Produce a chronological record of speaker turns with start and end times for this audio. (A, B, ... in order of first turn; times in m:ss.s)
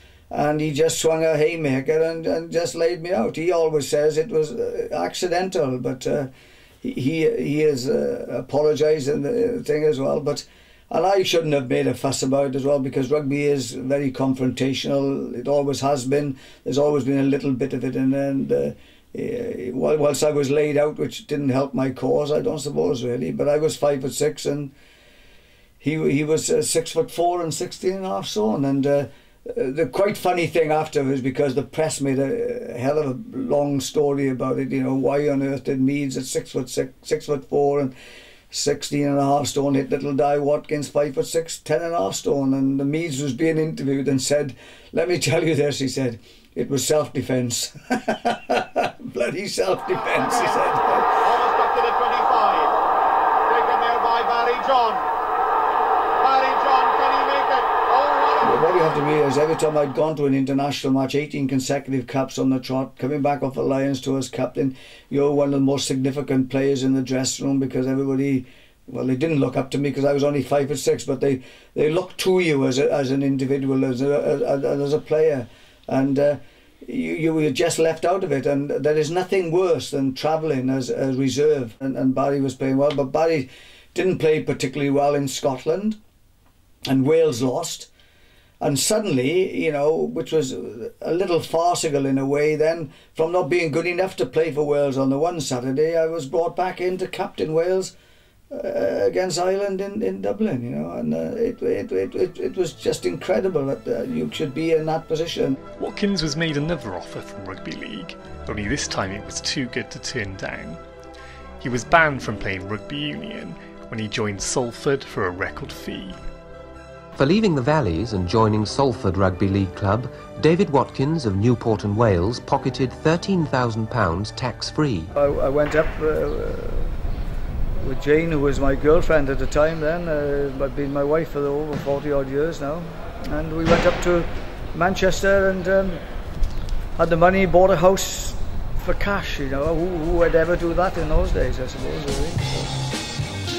0:00.3-0:06.3 A
0:06.8-0:24.7 A
0:25.8-0:37.9 A
0:38.5-0:51.2 A
0:51.5-0:52.6 B
0:53.6-0:55.0 B
0:56.3-0:58.2 B
0:58.4-1:26.0 A
1:26.9-1:27.9 A
1:28.6-1:37.9 A
1:38.5-1:45.6 A
1:45.8-1:50.8 C
1:51.6-1:56.2 C
1:57.2-2:05.1 D
2:05.1-2:06.9 A
2:07.8-2:16.0 A
2:17.0-2:22.8 A